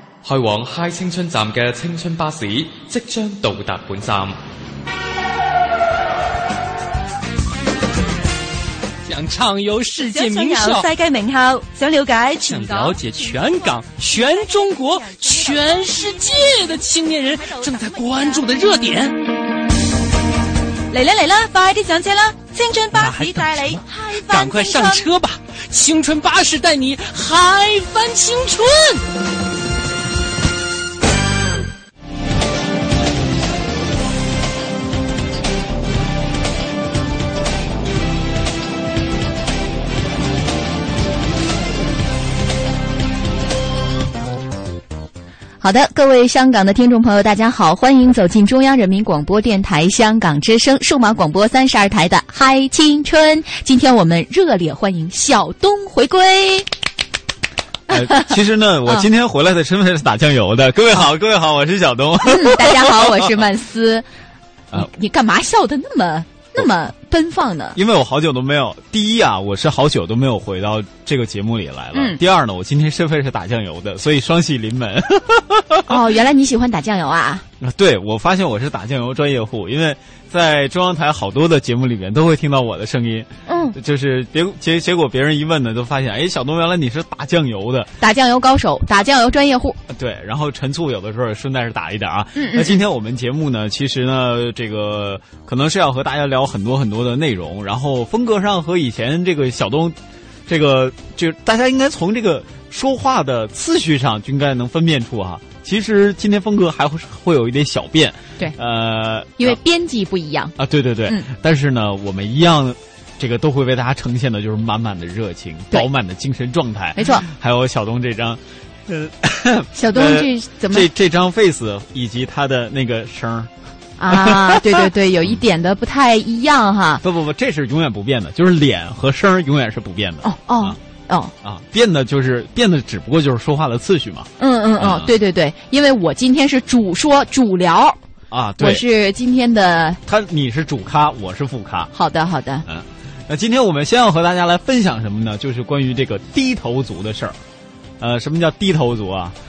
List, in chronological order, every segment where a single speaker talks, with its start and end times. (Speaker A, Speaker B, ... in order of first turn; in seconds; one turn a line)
Speaker A: 0.2-4.4
Speaker B: 9.1-10.9
Speaker C: 10.0-13.0
Speaker B: 12.4-19.2
Speaker C: 20.9-25.1
Speaker B: 22.9-29.0
Speaker D: 45.6-56.7
Speaker E: 57.9-63.3
Speaker D: 57.9-58.3
Speaker D: 62.2-64.1
Speaker D: 64.7-67.8
Speaker E: 67.8-76.0
Speaker D: 75.9-77.5
Speaker E: 77.6-87.9
Speaker D: 83.5-83.8
Speaker D: 88.0-89.8
Speaker E: 89.9-109.6
Speaker D: 92.3-92.7
Speaker D: 109.4-110.6
Speaker E: 110.6-123.5
Speaker D: 117.0-117.2
Speaker D: 119.8-120.9
Speaker D: 124.0-127.0
Speaker E: 124.1-124.9
Speaker E: 127.0-130.8
Speaker D: 130.2-131.3
Speaker E: 131.4-135.1
Speaker D: 134.4-138.0
Speaker E: 138.3-138.8
Speaker D: 138.6-140.0
Speaker E: 140.1-141.9
Speaker D: 141.9-142.7
Speaker E: 142.7-147.4
Speaker E: 148.0-149.4